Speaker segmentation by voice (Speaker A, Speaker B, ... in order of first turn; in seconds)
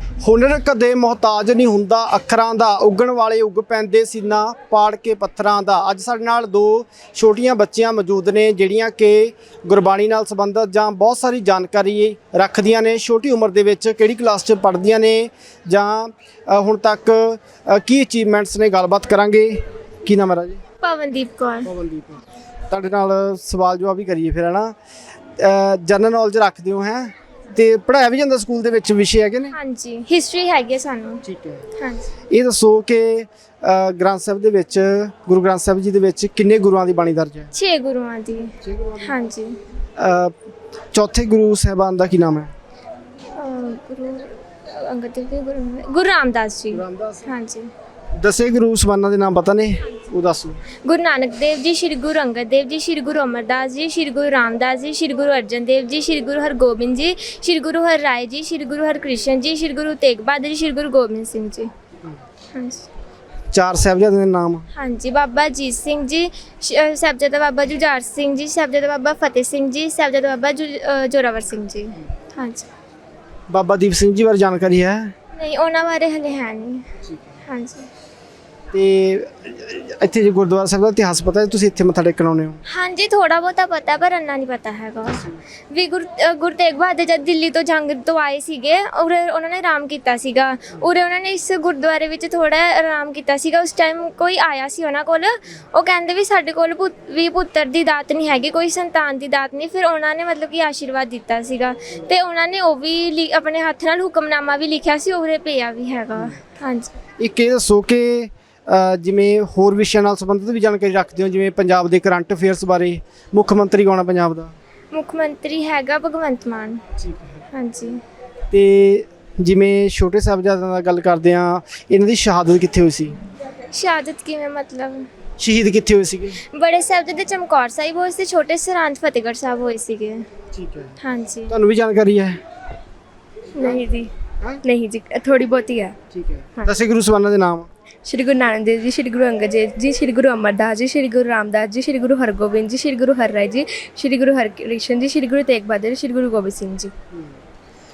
Speaker A: 0.2-20.6, 21.7-24.8, 25.4-29.6, 31.2-31.6, 32.3-37.5, 38.6-39.1, 40.0-40.4, 40.9-42.5, 46.7-47.3, 48.1-50.6, 63.5-64.7, 73.5-75.1, 78.7-82.6, 107.2-114.5, 118.5-123.2, 125.4-126.4, 130.5-130.9, 131.5-132.4, 136.1-137.7
Speaker B: 20.8-21.7, 29.5-31.2, 31.8-32.1, 37.5-39.6, 43.4-47.7, 50.8-61.7, 62.5-62.9, 64.7-72.7, 75.3-76.9, 77.5-77.9, 82.7-107.0, 114.9-116.8, 117.5-118.0, 123.7-125.1, 126.4-130.3, 131.0-131.5, 133.5-134.0
Speaker C: 133.6-134.1, 134.6-136.0, 138.1-146.9